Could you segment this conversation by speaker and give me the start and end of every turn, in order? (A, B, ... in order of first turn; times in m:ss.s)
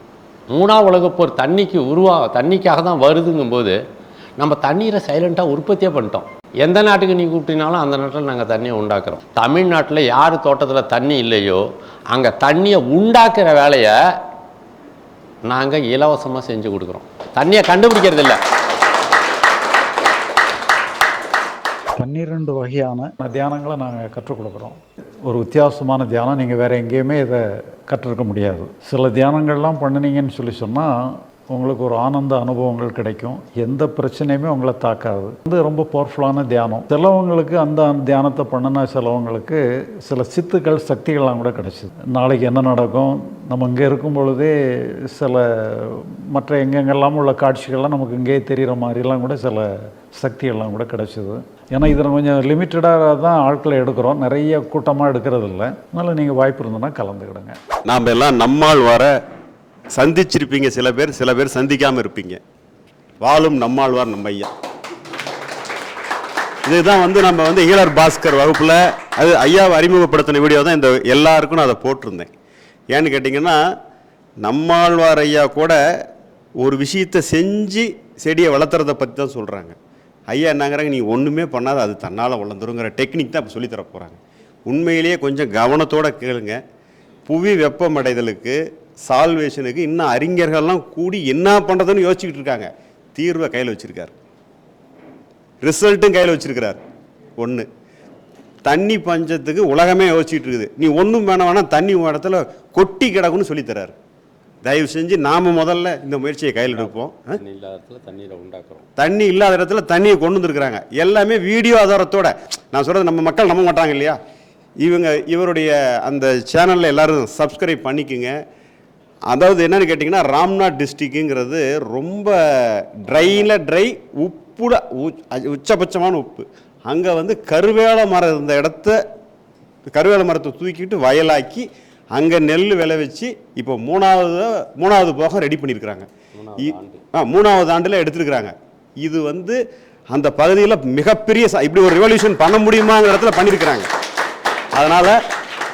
0:00.5-0:03.8 A
0:04.4-0:14.2 A
0:15.5-0:18.4 A
0:22.0-0:57.6 B
0:57.9-0:59.2 C
0:59.9-1:02.4 C
1:03.2-1:04.5 C
1:06.6-1:12.3 C
1:12.9-1:13.8 C
1:14.4-1:16.0 C
1:16.6-1:19.8 C
1:20.3-1:26.6 C
1:27.3-1:34.1 C
1:35.6-1:36.8 C
1:37.4-1:37.7 C
1:38.6-1:43.9 C
1:44.6-1:47.4 C
1:46.7-1:48.9 A
1:49.0-1:54.2 C
1:54.8-1:58.4 C
1:59.3-2:09.0 C
2:09.9-2:16.1 C
2:16.3-2:17.0 A
2:16.6-2:19.6 C
2:20.1-2:23.9 C
2:24.7-2:25.2 C